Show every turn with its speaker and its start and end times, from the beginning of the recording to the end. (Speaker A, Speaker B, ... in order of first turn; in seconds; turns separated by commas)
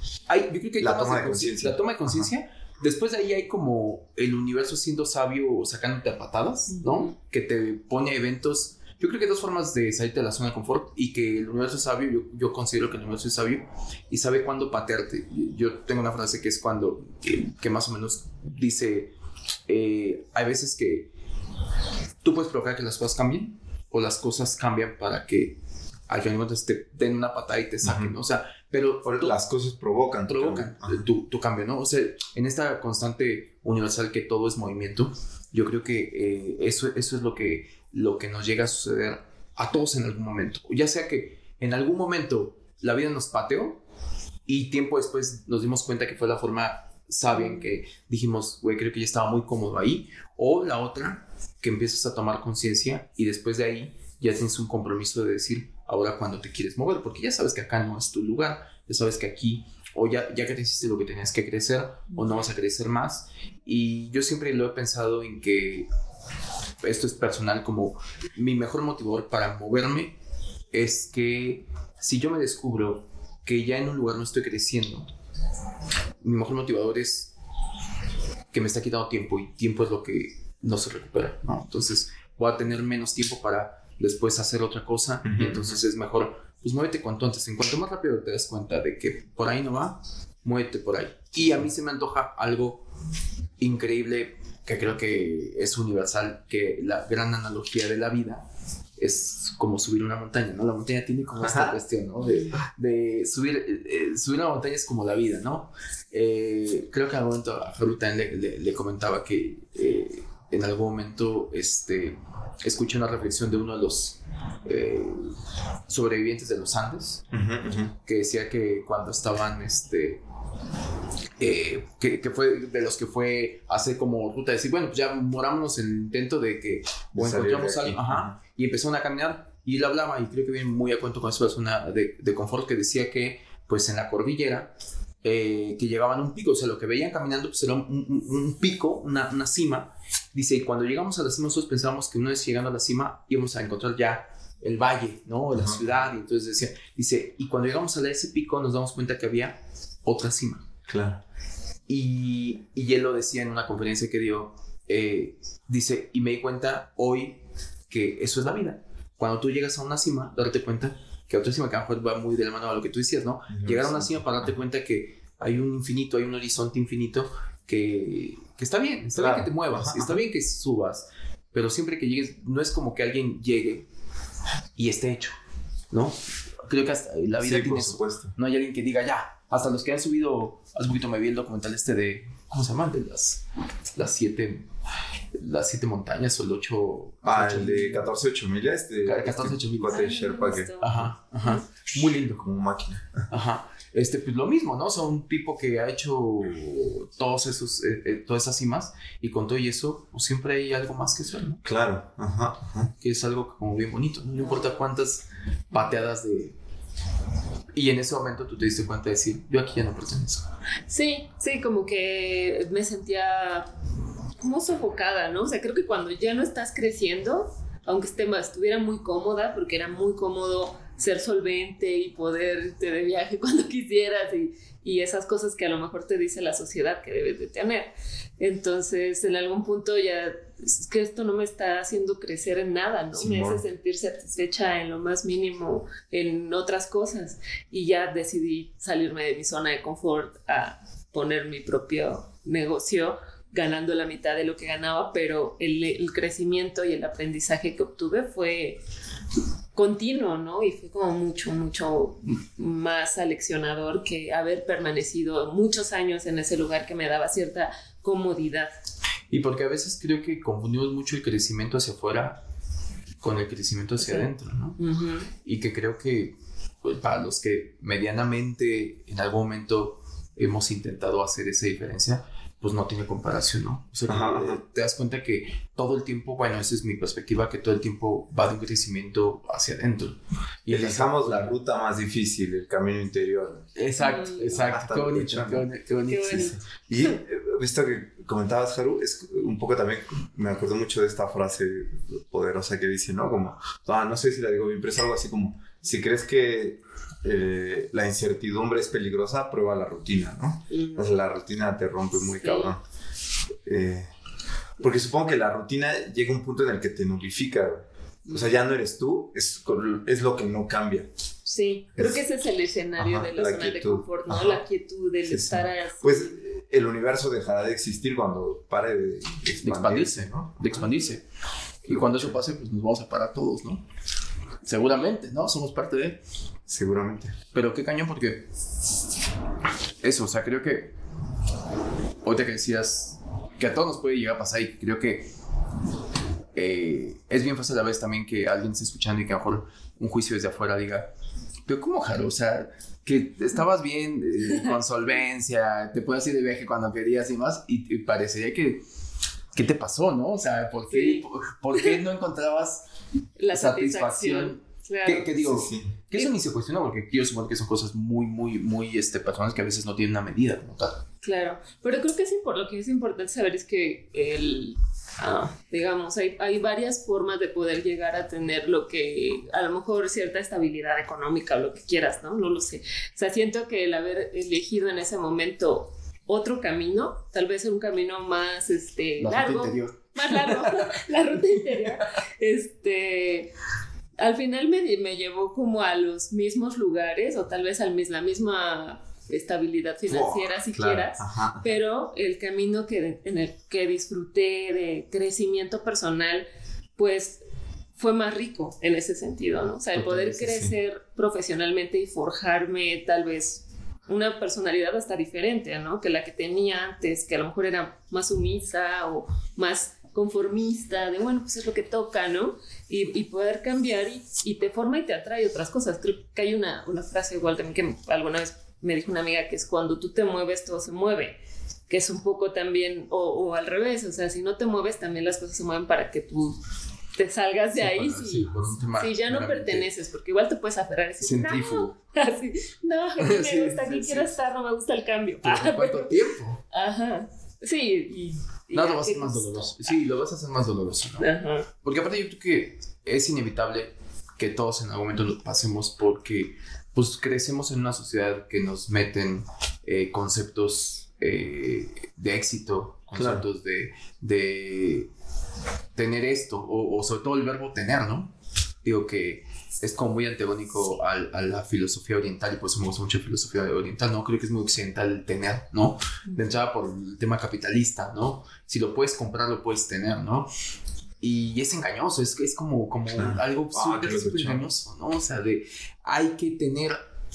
Speaker A: 0.3-19.1, Speaker B: 0.8-2.3, Speaker C: 6.7-7.1, Speaker A: 19.7-21.1, Speaker A: 22.2-25.6, Speaker A: 26.1-29.4, Speaker B: 27.9-28.1, Speaker B: 29.1-31.0, Speaker A: 30.3-43.8, Speaker A: 44.5-65.9, Speaker C: 47.3-47.7, Speaker A: 66.8-70.1, Speaker A: 70.7-75.1, Speaker A: 76.2-77.3, Speaker A: 78.5-92.9, Speaker B: 85.2-85.8, Speaker A: 93.6-98.5, Speaker A: 99.0-115.3, Speaker B: 101.4-101.8, Speaker C: 102.2-102.6, Speaker A: 115.9-117.2, Speaker B: 117.3-117.9, Speaker A: 118.0-120.2, Speaker A: 121.4-134.7, Speaker B: 127.1-128.4, Speaker A: 135.2-150.7, Speaker B: 145.5-145.9, Speaker B: 150.9-151.2, Speaker A: 151.9-173.9, Speaker B: 163.5-164.5, Speaker B: 169.2-170.2, Speaker A: 174.8-175.3, Speaker A: 175.9-184.7, Speaker B: 177.4-178.3, Speaker A: 185.4-188.1, Speaker B: 187.2-191.1, Speaker A: 189.0-190.1, Speaker C: 189.9-191.6, Speaker A: 190.8-192.4, Speaker B: 192.4-193.3, Speaker A: 193.3-201.6, Speaker B: 201.6-202.9, Speaker A: 203.0-206.6, Speaker A: 207.7-210.5, Speaker C: 210.9-213.7, Speaker C: 214.4-248.8, Speaker B: 233.1-233.6, Speaker C: 249.8-258.7, Speaker A: 259.3-262.4, Speaker A: 263.2-264.8, Speaker C: 264.0-265.3, Speaker A: 265.4-281.6, Speaker B: 274.1-274.6, Speaker B: 280.7-283.7, Speaker A: 283.8-286.6, Speaker C: 284.0-284.6, Speaker B: 284.5-285.7, Speaker C: 286.1-287.2, Speaker B: 286.7-302.8, Speaker C: 300.7-301.1, Speaker C: 302.2-302.7, Speaker B: 303.6-304.1, Speaker B: 304.8-311.1, Speaker C: 308.3-308.5, Speaker C: 311.4-316.4, Speaker B: 313.0-314.6, Speaker B: 315.3-320.9, Speaker A: 319.6-321.2, Speaker A: 321.8-323.8, Speaker B: 321.9-322.3, Speaker A: 324.6-326.2, Speaker B: 326.7-327.4, Speaker A: 327.5-328.5, Speaker A: 330.0-330.9, Speaker A: 332.2-335.3, Speaker A: 336.6-341.1, Speaker A: 341.7-348.8, Speaker A: 349.5-352.9, Speaker C: 350.9-351.2, Speaker C: 353.4-355.4, Speaker A: 353.5-361.0, Speaker B: 355.4-355.9, Speaker C: 361.2-383.5, Speaker A: 379.2-381.0, Speaker C: 384.2-396.5, Speaker B: 390.1-391.7, Speaker C: 397.0-397.4, Speaker C: 398.0-426.6, Speaker A: 400.0-400.4, Speaker B: 400.4-400.7, Speaker C: 427.1-436.1, Speaker A: 427.8-429.9, Speaker A: 431.2-431.9, Speaker A: 433.2-434.3, Speaker A: 435.4-436.6, Speaker C: 436.7-440.0, Speaker A: 438.7-441.3, Speaker C: 441.2-441.7, Speaker A: 441.8-455.1, Speaker B: 453.1-453.4, Speaker A: 455.9-458.3, Speaker A: 458.8-470.5, Speaker A: 471.2-477.0, Speaker B: 473.1-474.6